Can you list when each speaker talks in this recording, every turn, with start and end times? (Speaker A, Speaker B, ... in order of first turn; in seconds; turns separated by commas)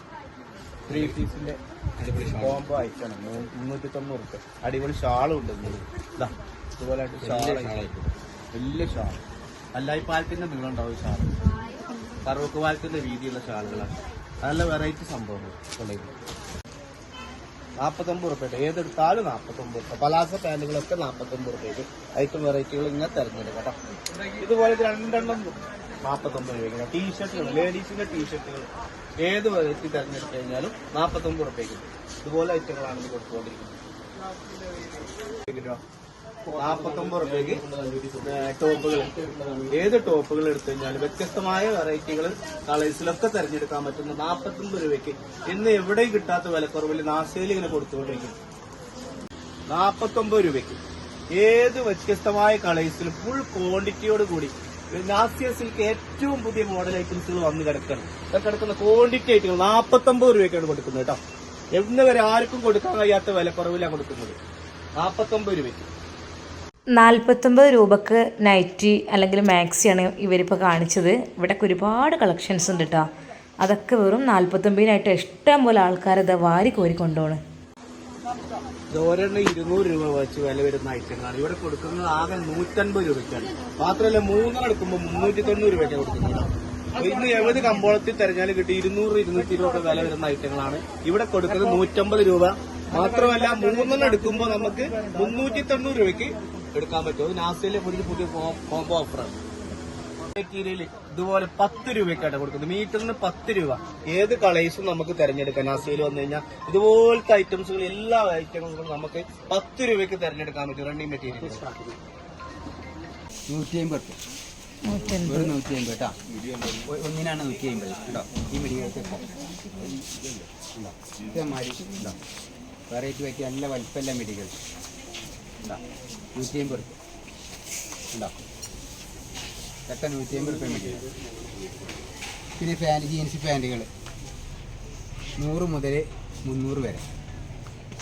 Speaker A: 0.9-9.2, Speaker A: 9.7-11.3, Speaker A: 12.2-16.1, Speaker A: 17.8-23.8, Speaker A: 24.4-28.7, Speaker A: 29.2-33.7, Speaker A: 35.5-35.8, Speaker A: 36.5-37.6, Speaker A: 38.2-39.1, Speaker A: 39.7-48.4, Speaker A: 49.7-50.8, Speaker A: 51.3-61.2, Speaker A: 61.8-64.4, Speaker A: 65.0-65.8, Speaker B: 67.0-73.1, Speaker B: 73.6-77.4, Speaker A: 78.9-99.3, Speaker A: 100.3-111.6, Speaker C: 113.5-114.2, Speaker B: 114.9-115.5, Speaker C: 115.1-122.2, Speaker C: 122.9-124.5, Speaker C: 126.3-127.0, Speaker C: 128.1-128.4, Speaker C: 129.9-131.1, Speaker C: 132.6-133.9, Speaker C: 135.4-137.1